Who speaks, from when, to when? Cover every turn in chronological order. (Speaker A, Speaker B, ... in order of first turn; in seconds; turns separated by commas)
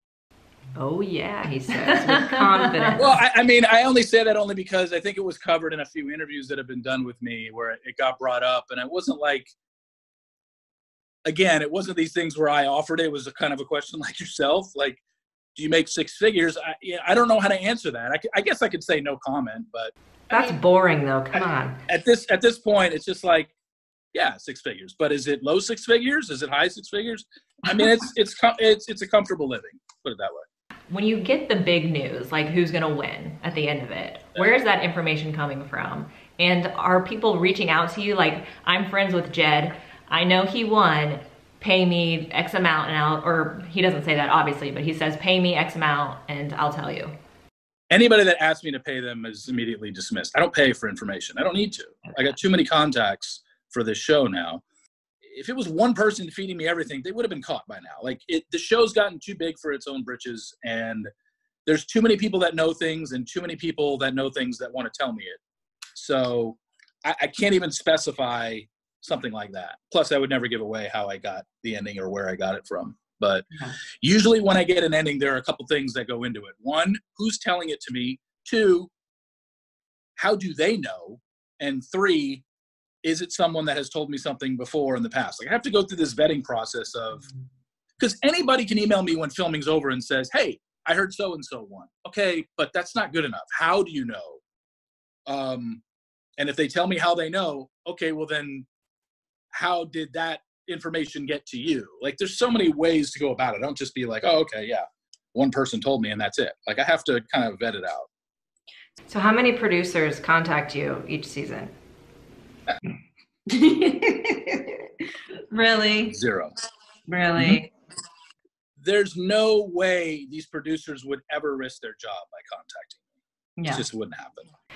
Speaker A: 0.7-3.2, Speaker B: 2.2-2.9, Speaker C: 3.0-9.5, Speaker C: 11.2-15.0, Speaker C: 15.5-20.6, Speaker A: 20.3-21.8, Speaker C: 21.3-23.5, Speaker C: 24.1-30.4, Speaker B: 30.9-47.1, Speaker C: 47.9-54.6, Speaker C: 55.2-61.1, Speaker C: 61.6-65.4, Speaker C: 65.9-78.9, Speaker C: 80.2-82.4, Speaker C: 83.0-87.3, Speaker C: 88.0-94.4, Speaker C: 95.3-95.8, Speaker C: 96.4-98.7, Speaker C: 99.5-108.1, Speaker A: 109.1-111.7, Speaker A: 113.5-114.7, Speaker A: 115.5-116.1, Speaker C: 116.0-116.6, Speaker A: 117.1-117.7, Speaker C: 118.8-123.0, Speaker A: 123.6-123.8, Speaker C: 123.7-124.5